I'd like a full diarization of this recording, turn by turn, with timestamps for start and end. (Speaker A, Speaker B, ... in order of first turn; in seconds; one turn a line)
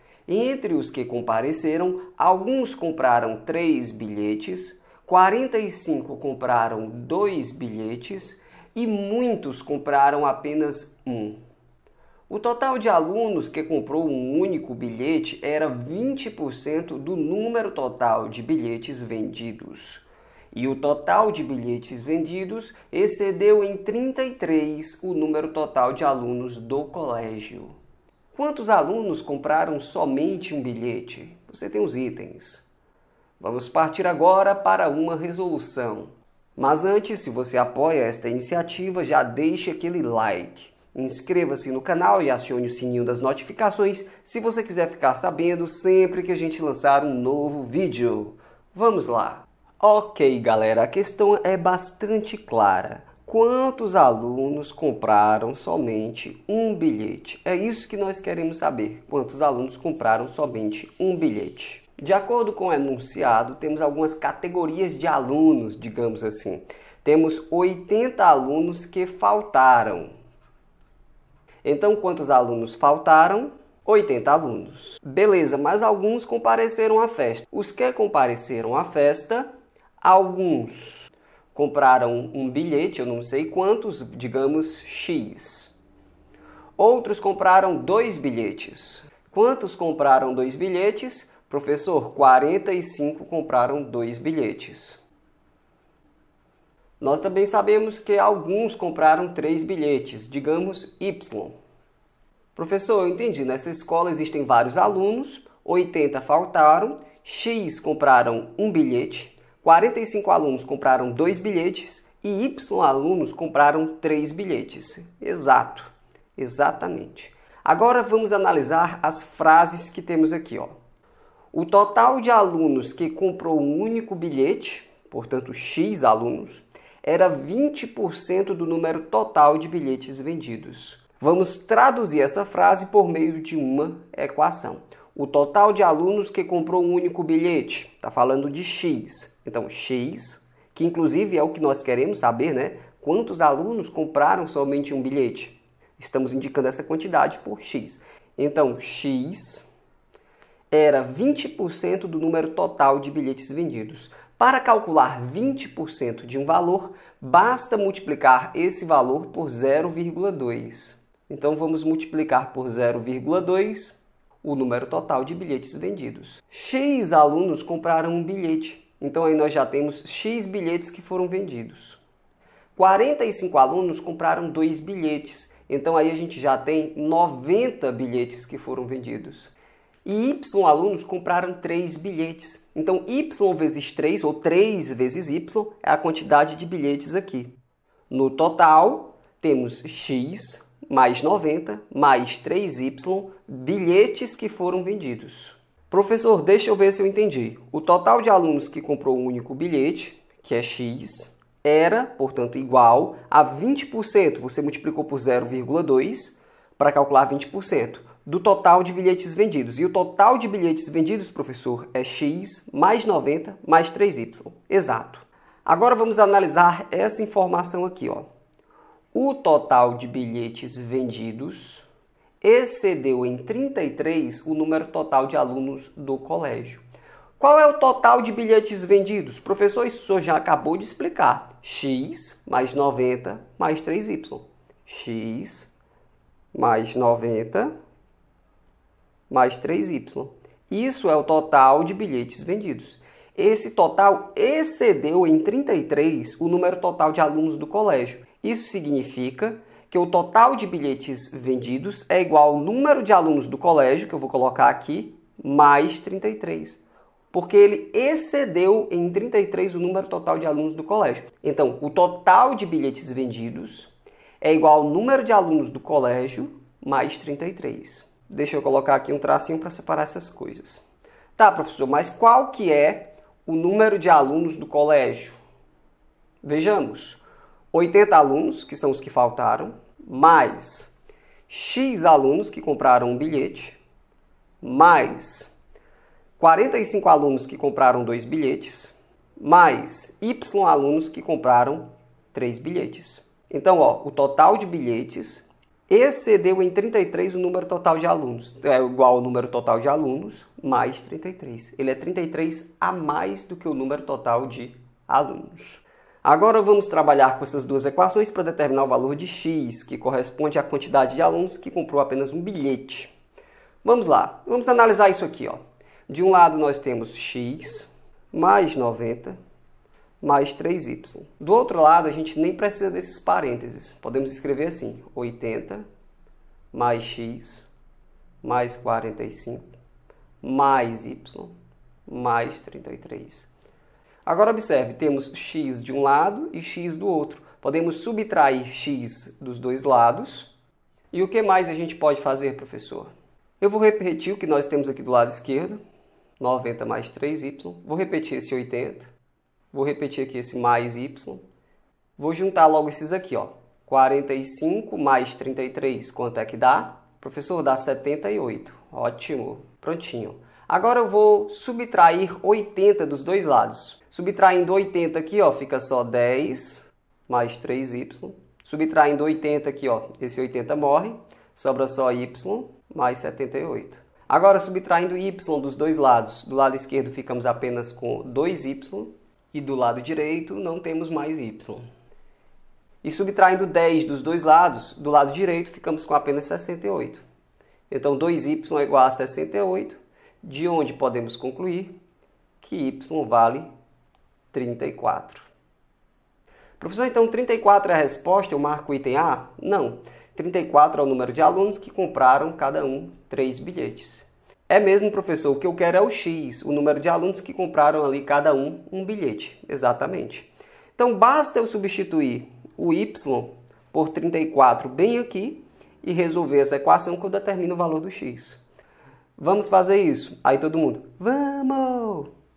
Speaker A: 0.3-11.4
Speaker A: 12.3-27.7
Speaker A: 28.3-32.6
Speaker A: 33.4-70.1
Speaker A: 71.6-79.5
Speaker A: 80.0-85.7
Speaker A: 86.8-95.0
Speaker A: 97.0-101.5
Speaker A: 102.5-120.7
Speaker A: 121.5-149.7
Speaker A: 150.7-172.0
Speaker A: 172.8-187.5
Speaker A: 188.1-218.3
Speaker A: 219.1-221.9
Speaker A: 222.4-226.8
Speaker A: 227.4-235.7
Speaker A: 236.5-237.7
Speaker A: 239.3-256.8
Speaker A: 257.3-270.8
Speaker A: 271.4-275.4
Speaker A: 276.4-277.2
Speaker A: 277.7-280.9
Speaker A: 281.5-283.8
Speaker A: 284.6-285.5
Speaker A: 286.4-313.1
Speaker A: 313.8-319.4
Speaker A: 320.2-325.8
Speaker A: 326.7-327.7
Speaker A: 328.4-329.7
Speaker A: 330.4-331.5
Speaker A: 332.1-333.5
Speaker A: 334.2-340.5
Speaker A: 341.1-345.8
Speaker A: 346.4-349.1
Speaker A: 349.7-351.4
Speaker A: 352.2-381.9
Speaker A: 383.0-387.2
Speaker A: 387.9-391.9
Speaker A: 392.6-393.7
Speaker A: 394.5-395.5
Speaker A: 396.8-418.6
Speaker A: 419.4-422.3